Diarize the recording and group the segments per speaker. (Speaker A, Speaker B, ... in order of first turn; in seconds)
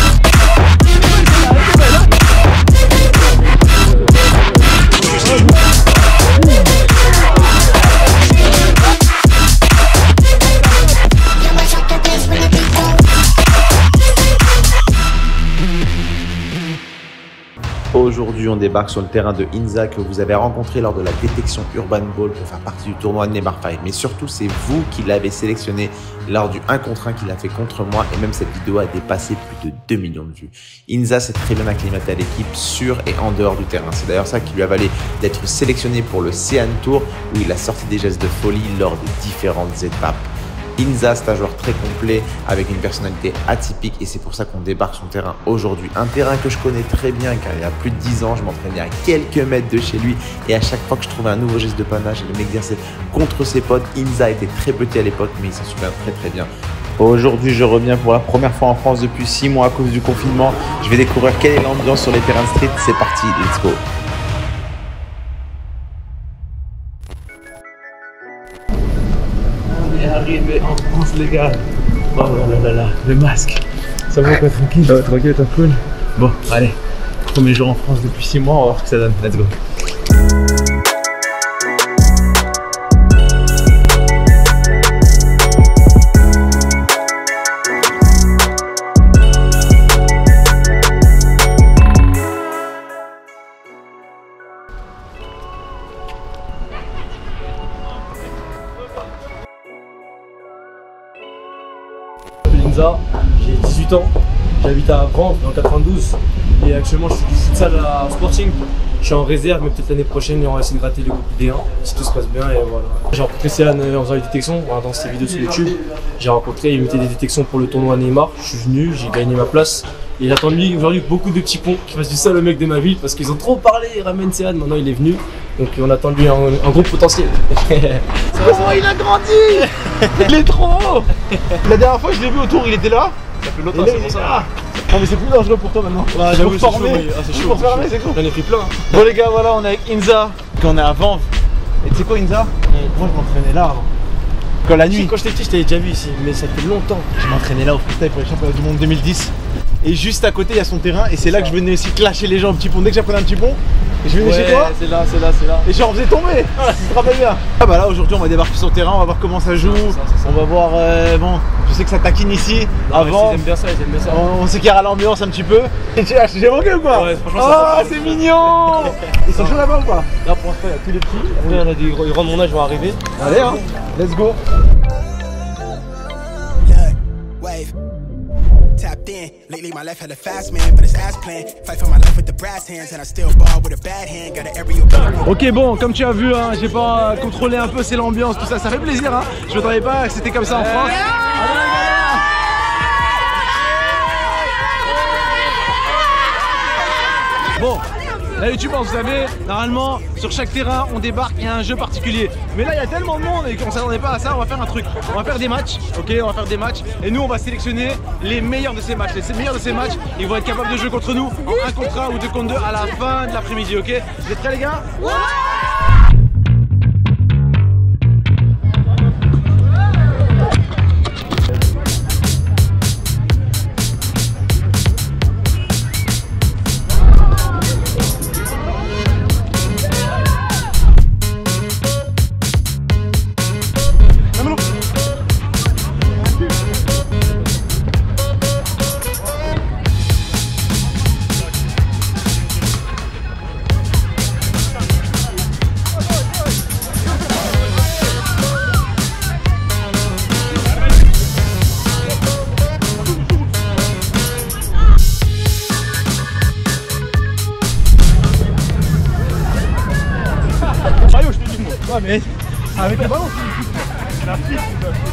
Speaker A: 17.9-63.8, 75.1-75.7, 76.2-76.7, 77.4-77.8, 78.6-79.5
Speaker B: 69.7-76.6, 77.3-79.4, 128.3-130.3, 131.6-133.2, 133.7-138.2, 138.9-141.3, 141.8-143.9, 144.6-145.2, 147.2-154.7, 155.7-163.4, 164.1-170.1, 173.2-174.4, 185.3-190.9, 197.6-197.8, 198.4-215.1, 261.1-262.3, 262.8-263.2
Speaker C: 102.5-128.9, 129.5-131.6, 133.4-134.5, 136.1-138.8, 144.9-147.1, 151.2-151.6, 154.2-155.7, 159.5-160.4, 162.9-164.2, 166.9-169.6, 170.2-173.1, 185.9-187.0, 190.6-190.9, 191.7-192.0
Speaker D: 176.6-177.7, 178.8-185.3